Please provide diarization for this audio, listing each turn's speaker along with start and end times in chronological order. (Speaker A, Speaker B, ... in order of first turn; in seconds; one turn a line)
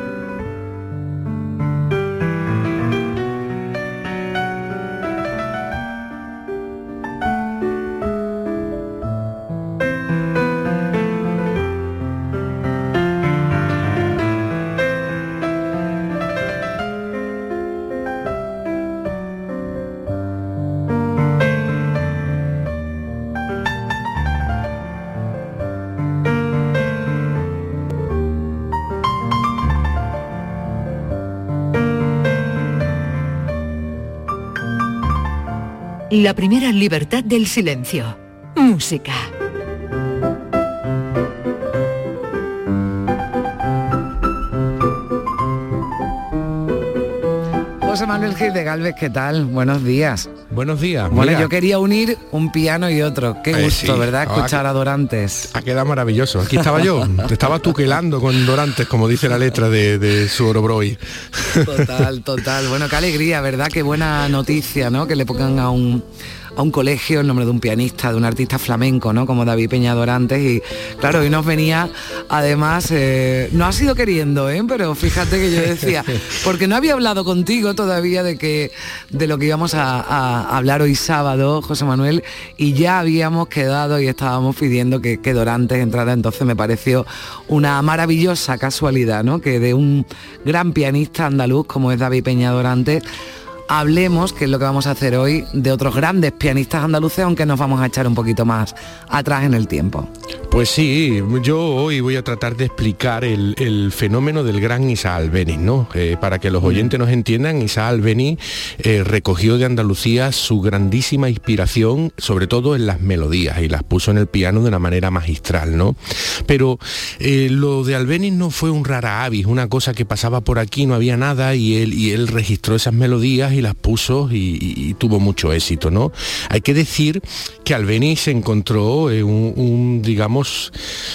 Speaker A: 36.1-39.3
Speaker B: 47.8-50.4
Speaker C: 50.5-51.5
Speaker B: 51.1-55.5
Speaker C: 53.5-54.6
Speaker C: 55.5-61.9
Speaker B: 61.6-93.1
Speaker B: 93.7-100.1
Speaker C: 100.5-130.7
Speaker B: 106.6-107.0